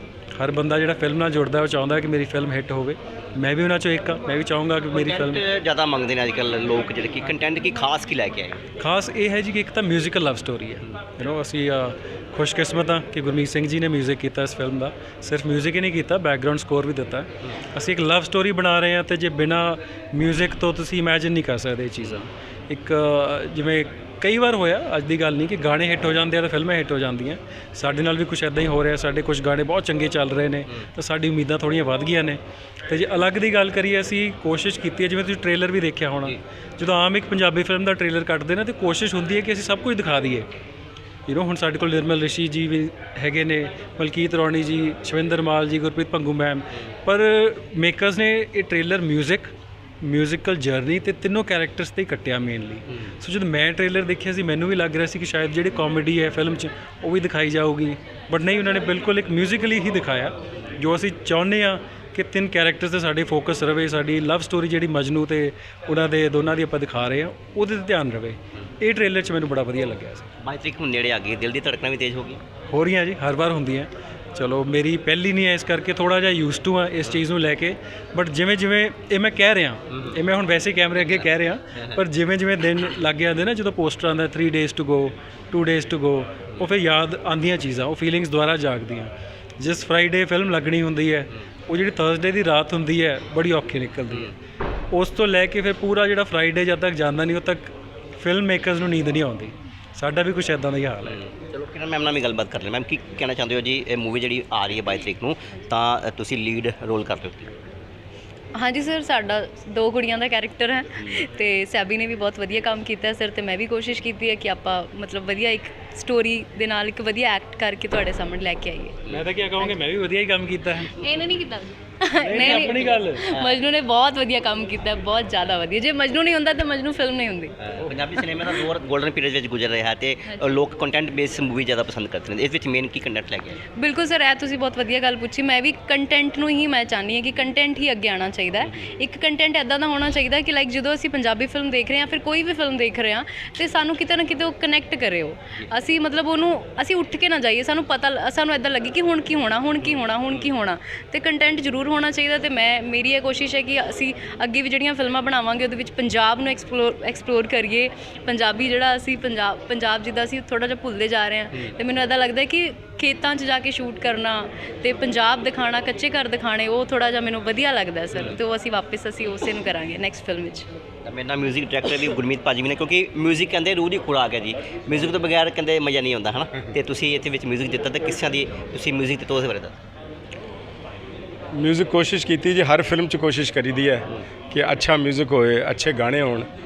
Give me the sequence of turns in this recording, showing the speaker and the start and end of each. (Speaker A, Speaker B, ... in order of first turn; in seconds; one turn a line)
Speaker A: 0.3-5.4
Speaker B: 4.9-8.6
Speaker A: 8.8-40.5
Speaker A: 41.3-70.2
Speaker B: 70.4-72.4
Speaker A: 72.7-94.3
Speaker A: 94.9-101.2
Speaker B: 101.0-107.5
Speaker C: 108.6-119.0
Speaker A: 119.1-121.0
Speaker C: 120.8-128.7
Speaker A: 122.2-123.2
Speaker B: 123.3-123.6
Speaker B: 127.7-133.6
Speaker C: 130.3-130.5
Speaker C: 133.8-170.7
Speaker B: 138.6-138.9
Speaker B: 149.8-150.5
Speaker B: 168.1-168.4
Speaker B: 171.0-179.8
Speaker D: 181.5-186.5